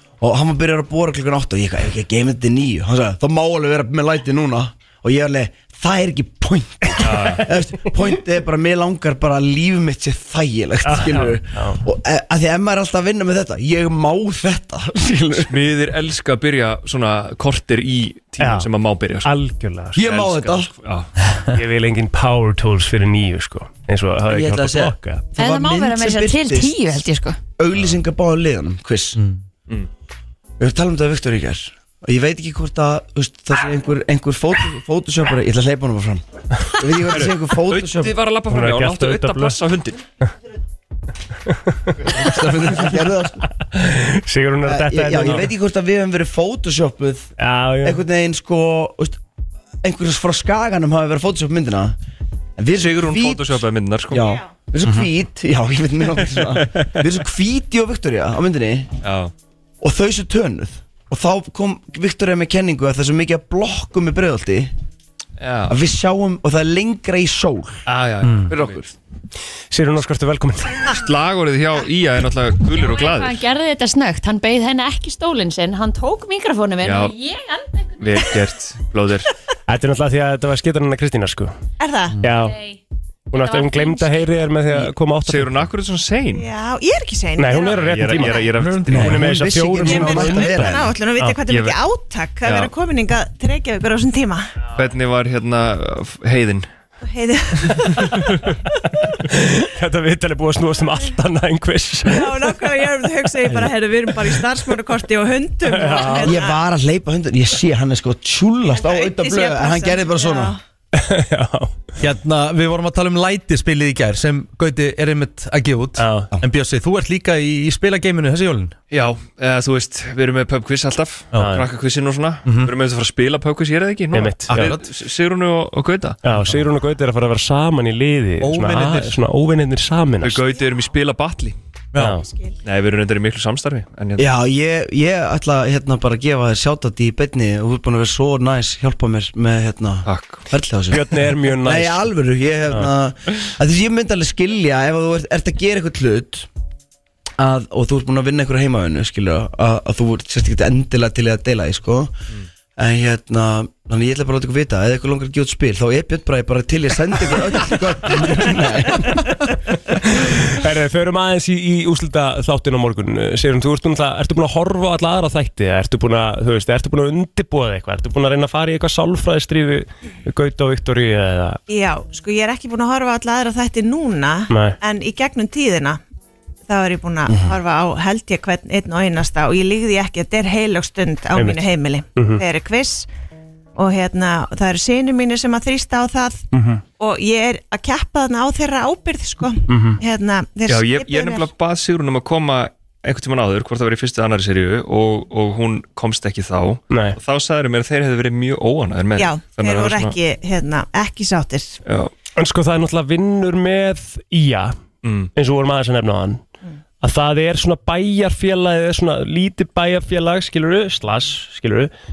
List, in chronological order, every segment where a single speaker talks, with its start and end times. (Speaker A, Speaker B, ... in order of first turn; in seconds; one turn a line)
Speaker A: 0.2-15.5
Speaker B: 7.0-7.5
Speaker C: 10.8-11.8
Speaker B: 15.5-19.3
Speaker C: 18.4-18.7
Speaker C: 19.2-20.0
Speaker A: 19.9-20.7
Speaker B: 20.0-21.1
Speaker C: 21.5-25.2
Speaker A: 24.3-26.8
Speaker D: 25.4-27.4
Speaker A: 27.6-29.2
Speaker A: 30.6-36.2
Speaker A: 36.8-38.2
Speaker B: 37.1-40.0
Speaker C: 38.5-39.6
Speaker C: 41.5-42.2
Speaker A: 42.0-43.4
Speaker C: 43.7-45.5
Speaker A: 44.6-47.3
Speaker C: 47.4-48.0
Speaker A: 47.8-49.2
Speaker A: 49.8-51.9
Speaker A: 52.6-58.9
Speaker B: 52.8-54.3
Speaker E: 54.8-55.1
Speaker B: 56.3-57.0
Speaker B: 59.0-59.3
Speaker A: 59.8-64.7
Speaker B: 65.4-65.8
Speaker A: 65.7-67.8
Speaker B: 67.9-68.8
Speaker E: 68.2-68.5
Speaker A: 68.5-68.9
Speaker C: 69.7-70.9
Speaker B: 70.9-73.4
Speaker D: 72.7-78.3
Speaker B: 76.8-77.1
Speaker B: 78.0-79.3
Speaker C: 79.7-81.5
Speaker F: 81.8-82.2
Speaker C: 82.2-82.6
Speaker D: 82.3-82.8
Speaker C: 83.3-85.7
Speaker D: 83.3-84.2
Speaker B: 85.2-86.5
Speaker F: 86.3-87.9
Speaker C: 87.4-91.4
Speaker B: 87.6-89.1
Speaker E: 88.6-89.3
Speaker A: 88.9-90.9
Speaker F: 89.8-94.5
Speaker B: 91.5-91.8
Speaker B: 92.4-92.7
Speaker B: 94.7-96.7
Speaker F: 97.0-98.2
Speaker C: 99.3-102.5
Speaker F: 102.0-106.6
Speaker A: 103.4-103.8
Speaker C: 105.7-106.3
Speaker A: 106.2-110.6
Speaker F: 108.7-110.6
Speaker C: 110.9-111.7
Speaker E: 112.0-118.7
Speaker C: 116.0-116.3
Speaker B: 118.9-126.2
Speaker C: 121.4-121.6
Speaker E: 122.5-122.7
Speaker C: 124.1-124.8
Speaker E: 124.5-124.8
Speaker C: 126.2-130.4
Speaker E: 128.4-129.2
Speaker B: 130.2-131.6
Speaker F: 130.5-130.7
Speaker E: 131.9-132.2
Speaker C: 131.9-132.2
Speaker F: 132.2-132.6
Speaker B: 132.6-134.3
Speaker A: 134.2-146.5
Speaker B: 140.1-140.4
Speaker C: 140.9-142.1
Speaker A: 147.4-152.1
Speaker A: 152.8-159.3
Speaker C: 160.0-171.6
Speaker F: 171.7-176.0
Speaker C: 174.5-174.8
Speaker F: 176.7-183.1
Speaker C: 181.3-181.6
Speaker C: 182.2-182.4
Speaker F: 183.8-186.4
Speaker C: 186.5-186.8
Speaker F: 187.0-191.5
Speaker C: 189.7-190.0
Speaker B: 190.7-200.2
Speaker C: 196.9-197.2
Speaker F: 199.2-201.8
Speaker B: 201.8-202.1
Speaker C: 202.4-204.8
Speaker B: 205.0-205.3
Speaker C: 205.3-206.4
Speaker C: 207.0-211.9